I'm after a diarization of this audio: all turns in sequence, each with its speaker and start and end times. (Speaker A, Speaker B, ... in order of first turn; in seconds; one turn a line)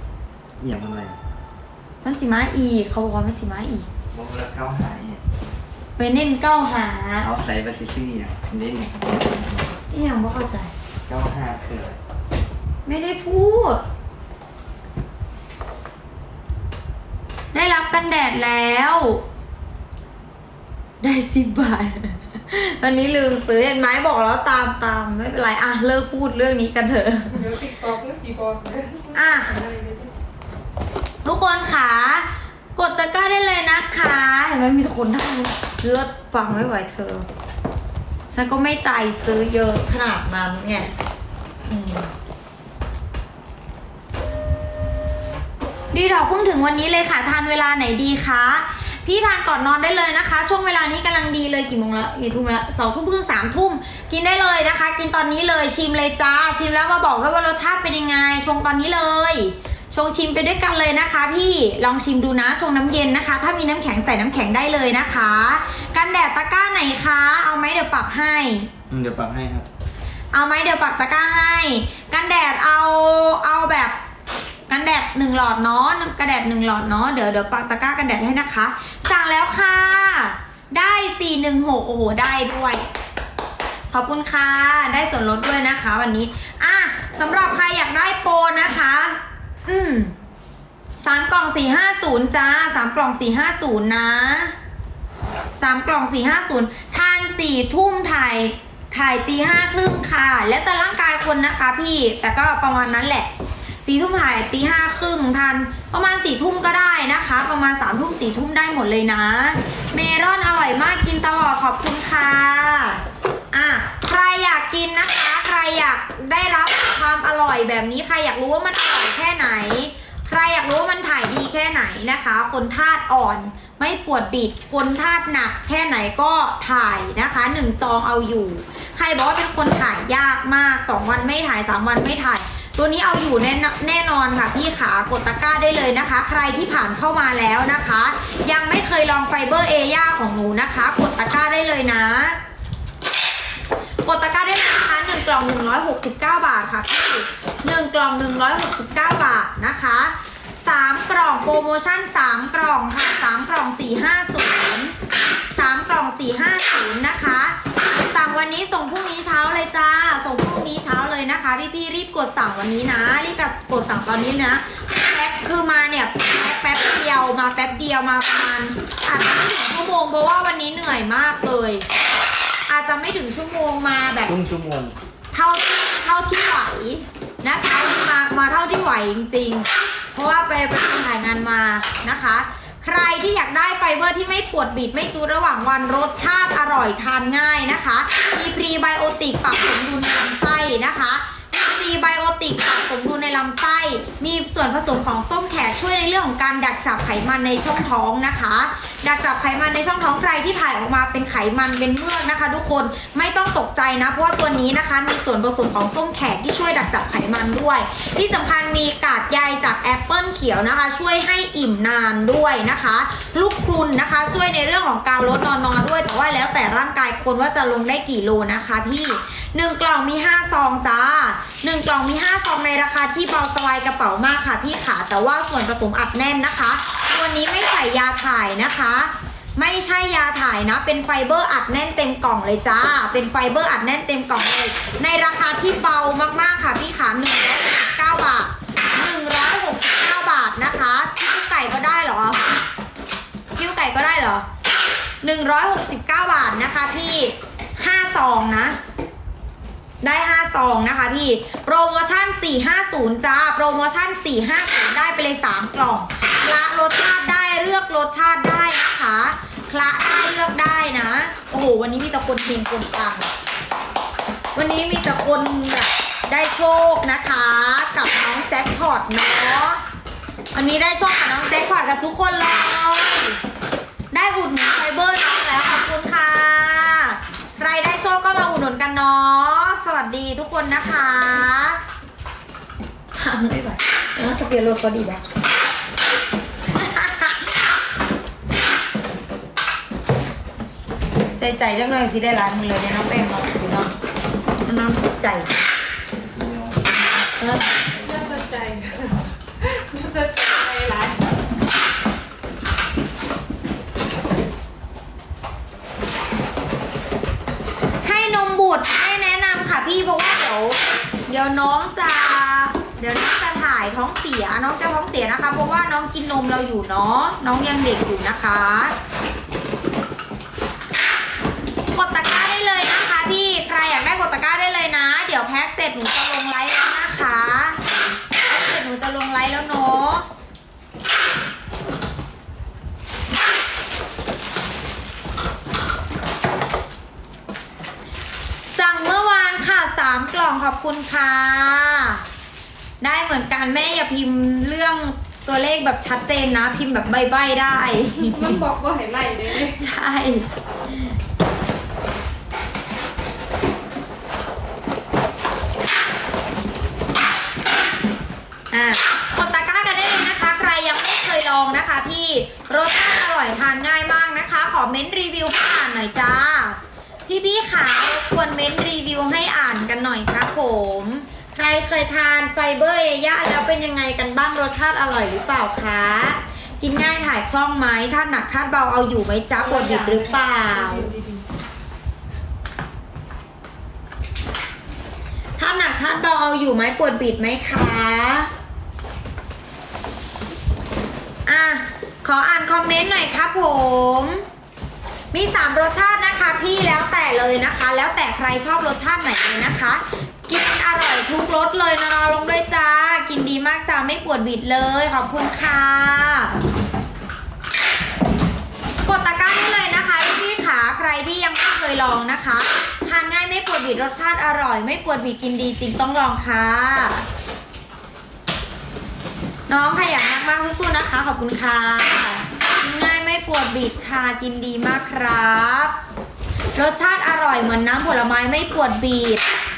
Speaker A: 0.6-1.2
Speaker B: 2.0-3.9
Speaker A: 4.1-5.2
Speaker B: 6.0-7.3
Speaker A: 7.2-9.4
Speaker B: 9.9-10.7
Speaker A: 11.1-12.0
Speaker B: 12.8-13.8
Speaker B: 17.5-19.2
Speaker B: 21.0-27.4
Speaker C: 27.3-30.1
Speaker B: 29.1-29.5
Speaker B: 31.2-37.3
Speaker B: 38.3-40.9
Speaker B: 41.7-42.1
Speaker B: 45.9-68.7
Speaker A: 68.9-69.7
Speaker B: 70.3-74.0
Speaker B: 74.7-82.8
Speaker B: 83.9-90.1
Speaker B: 91.0-94.5
Speaker B: 95.5-103.3
Speaker B: 103.8-142.4
Speaker B: 144.0-154.9
Speaker B: 155.5-171.8
Speaker B: 172.7-174.3
Speaker A: 174.2-174.9
Speaker B: 175.3-242.4
Speaker B: 243.6-244.4
Speaker B: 245.2-248.8
Speaker B: 250.0-263.3
Speaker B: 264.5-269.8
Speaker B: 270.5-273.4
Speaker B: 274.1-281.8
Speaker B: 283.1-285.2
Speaker B: 286.7-287.4
Speaker B: 291.3-293.9
Speaker B: 294.6-295.5
Speaker A: 296.2-296.9
Speaker B: 297.4-297.7
Speaker C: 297.9-301.2
Speaker B: 308.0-318.9
Speaker B: 321.9-327.8
Speaker B: 328.4-330.3
Speaker B: 338.7-342.2
Speaker B: 343.0-348.5
Speaker C: 348.2-349.8
Speaker B: 349.6-350.5
Speaker B: 358.7-381.1
Speaker C: 379.6-381.4
Speaker B: 385.6-388.5
Speaker B: 391.4-394.4
Speaker B: 395.3-406.6
Speaker B: 409.0-417.2
Speaker B: 419.7-426.0
Speaker B: 426.7-429.4